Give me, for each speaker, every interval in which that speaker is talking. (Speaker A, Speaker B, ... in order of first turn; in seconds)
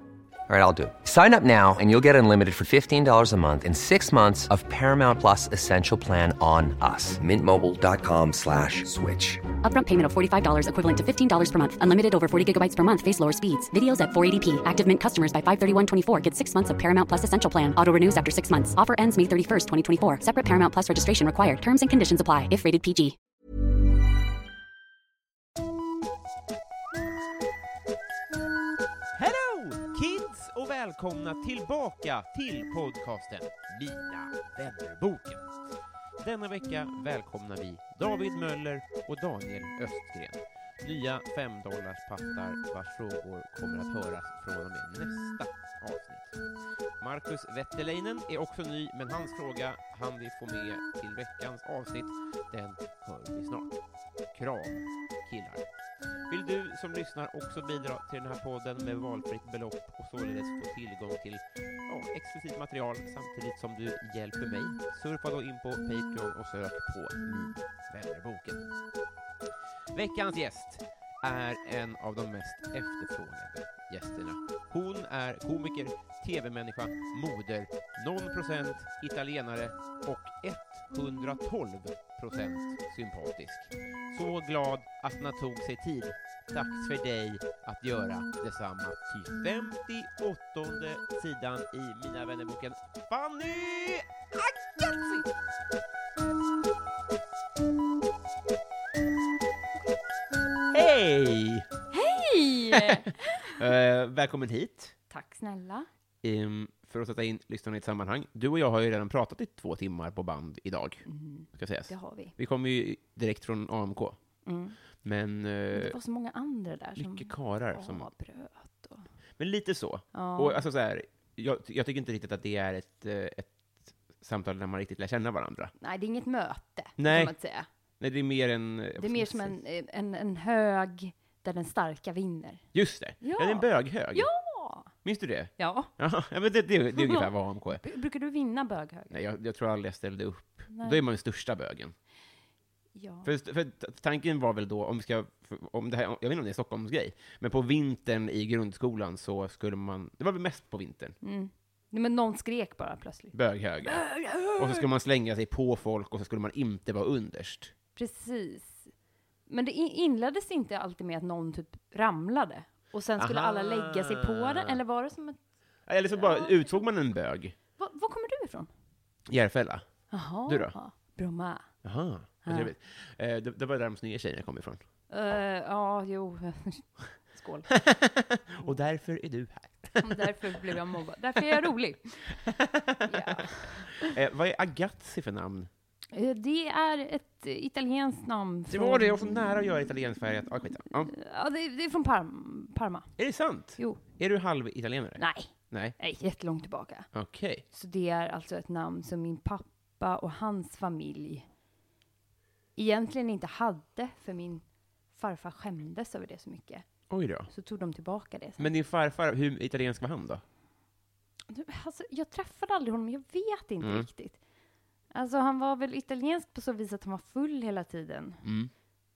Speaker A: 0.5-9.4
Speaker B: 9.6-23.2
Speaker C: 29.2-35.5, 36.2-46.4, 47.0-53.8, 54.3-55.6, 56.3-68.7, 69.9-94.9, 100.7-101.7, 102.7-104.9, 106.2-114.2, 115.0-116.0, 117.0-118.1, 119.4-125.7, 127.0-127.3, 128.0-129.6, 132.7-134.3, 135.0-137.8, 139.1-141.9, 143.2-151.2, 153.3-157.7, 163.2-164.8, 165.9-167.5, 169.3-170.7, 171.8-174.8, 177.7-180.4, 182.4-183.4, 183.9-185.7, 188.7-191.1, 193.2-195.9, 197.1-197.6, 207.1-207.5, 208.6-210.4, 213.8-214.1, 218.4-218.7
Speaker D: 94.9-95.2, 101.9-103.5, 105.1-105.9, 111.0-112.3, 114.5-114.8, 115.7-119.1, 120.1-120.6, 125.8-127.7, 129.0-132.6, 133.2-134.9, 135.6-135.9, 136.9-139.1, 140.7-141.0, 142.9-143.3, 151.2-154.8, 157.9-158.9, 159.5-165.4, 166.1-166.8, 167.8-168.7, 170.1-171.7, 172.4-172.7, 175.1-177.7, 180.0-182.4, 183.1-184.1, 186.1-189.4, 191.0-193.1, 193.8-194.0, 195.2-197.1, 197.7-201.5, 202.8-204.6, 205.1-206.9, 207.5-208.7, 211.5-214.4, 215.1-218.4